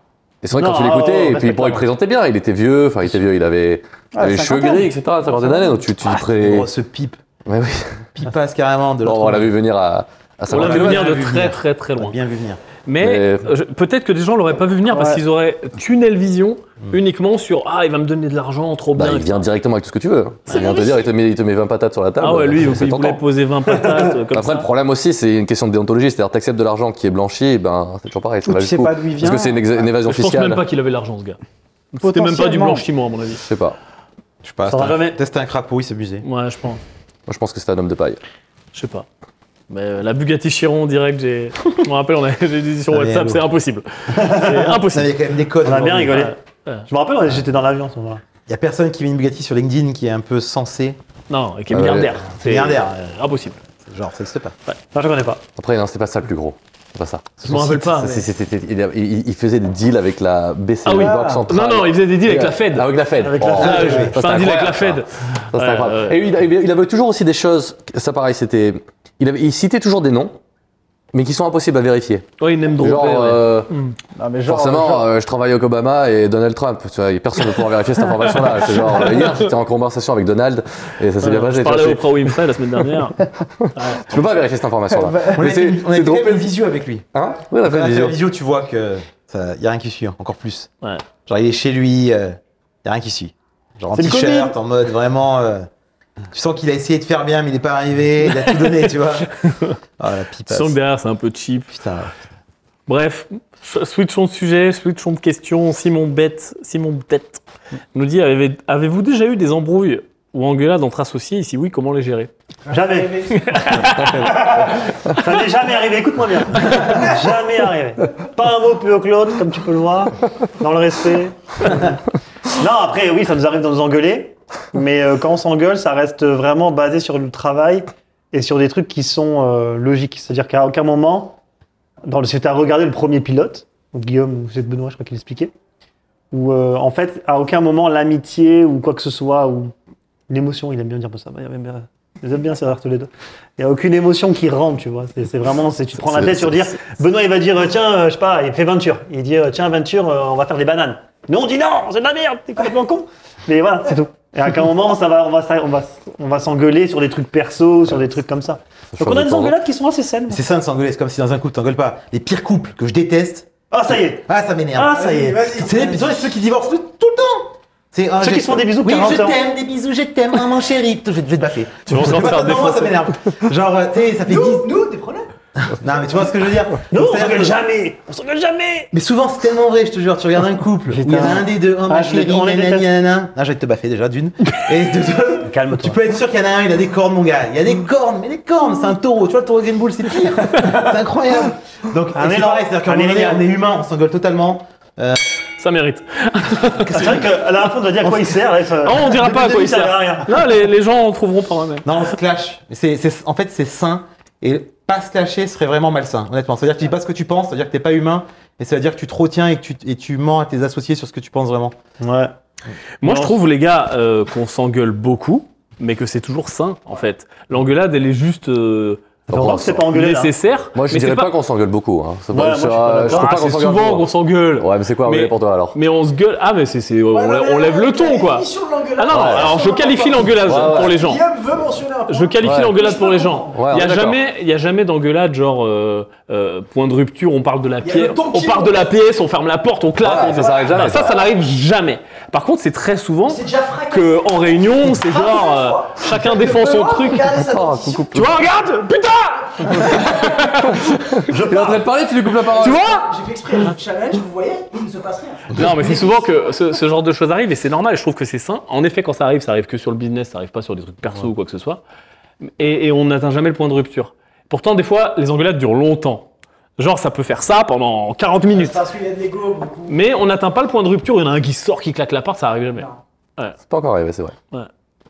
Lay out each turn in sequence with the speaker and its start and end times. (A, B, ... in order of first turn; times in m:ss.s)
0:00.4-0:06.7 A
0:00.5-0:01.8 B
0:04.1-0:04.9 C
0:05.4-0:05.7 C
0:06.1-0:07.2 D
0:07.4-0:08.0 A
0:08.2-0:09.5 D
0:09.0-0:11.2 A
0:10.5-0:12.2 E
0:10.5-0:12.6 D
0:12.8-0:19.5 E
0:13.0-0:13.5 A
0:14.9-0:15.2 C
0:18.9-0:23.2 A
0:20.5-0:20.9 E
0:22.2-0:24.7 E
0:24.3-0:30.6 A
0:28.4-0:29.8 C
0:30.0-0:31.4 E
0:31.9-0:33.4 E
0:32.0-0:32.8 C
0:33.4-0:33.8 A
0:34.4-0:36.2 D
0:34.6-0:35.2 B
0:36.2-0:36.8 E
0:37.3-0:38.2 A
0:38.7-0:39.1 E
0:39.7-0:45.1 E
0:42.9-0:43.4 D
0:44.2-0:46.3 D
0:45.6-0:46.4 B
0:46.2-0:46.8 E
0:46.9-0:48.2 B
0:48.5-0:51.0 D
0:51.3-0:53.6 E
0:51.7-0:52.2 A
0:52.3-0:53.0 D
0:53.8-0:54.5 D
0:54.9-0:55.4 B
0:55.6-1:10.4 A
0:57.4-0:58.2 E
1:00.8-1:02.8 E
1:00.9-1:01.4 C
1:03.2-1:04.1 B
1:03.6-1:04.2 D
1:03.6-1:06.2 E
1:11.1-1:13.7 A
1:12.4-1:13.9 E
1:14.2-1:15.1 C
1:14.4-1:22.4 A
1:21.2-1:23.2 E
1:23.6-1:26.5 A
1:23.7-1:24.0 E
1:24.9-1:25.4 C
1:25.2-1:30.7 D
1:27.1-1:28.2 A
1:31.2-1:35.7 D
1:33.9-1:34.6 B
1:36.3-1:39.3 D
1:39.5-1:39.7 E
1:40.0-1:40.8 D
1:40.5-1:41.7 E
1:41.7-1:42.1 D
1:42.9-1:47.4 E
1:47.9-1:52.3 E
1:52.7-1:53.4 C
1:52.7-1:53.4 B
1:53.3-1:54.6 E
1:53.9-1:54.4 A
1:54.2-2:02.0 B
2:02.5-2:11.4 B
2:12.0-2:15.5 B
2:16.3-2:19.7 B
2:20.3-2:40.4 B
2:26.0-2:26.5 A
2:38.9-2:39.5 A
2:40.3-2:43.5 D
2:43.7-2:45.2 B
2:44.3-2:54.7 D
2:44.9-2:46.2 C
2:48.2-2:49.4 B
2:51.9-2:53.0 E
2:54.2-2:55.3 C
2:55.6-2:57.6 D
2:56.9-2:58.9 B
2:58.9-3:15.2 D
3:00.9-3:02.9 B
3:05.4-3:06.0 B
3:12.1-3:13.5 B
3:15.6-3:17.1 E
3:16.9-3:20.4 B
3:18.0-3:18.4 D
3:18.8-3:21.9 E
3:21.8-3:31.7 D
3:32.0-3:32.3 B
3:33.0-3:39.1 E
3:33.0-3:33.4 B
3:39.3-3:39.9 A
3:39.3-3:40.3 B
3:39.9-3:41.3 E
3:40.7-3:45.8 A
3:42.3-3:43.4 B
3:43.0-3:48.5 E
3:47.1-3:53.6 C
3:49.0-3:51.2 E
3:49.1-3:49.5 A
3:50.4-3:51.0 A
3:52.1-4:07.4 E
3:52.4-3:52.7 A
3:53.5-3:54.2 A
3:57.8-3:58.9 C
4:00.0-4:01.2 A
4:03.3-4:08.2 C
4:07.5-4:08.4 A
4:08.0-4:11.1 E
4:09.6-4:10.7 C
4:10.8-4:12.8 A
4:12.5-4:16.2 C
4:12.6-4:13.1 E
4:15.5-4:21.8 E
4:22.6-4:28.8 E
4:28.5-4:30.0 C
4:29.9-4:33.5 E
4:33.6-4:34.3 A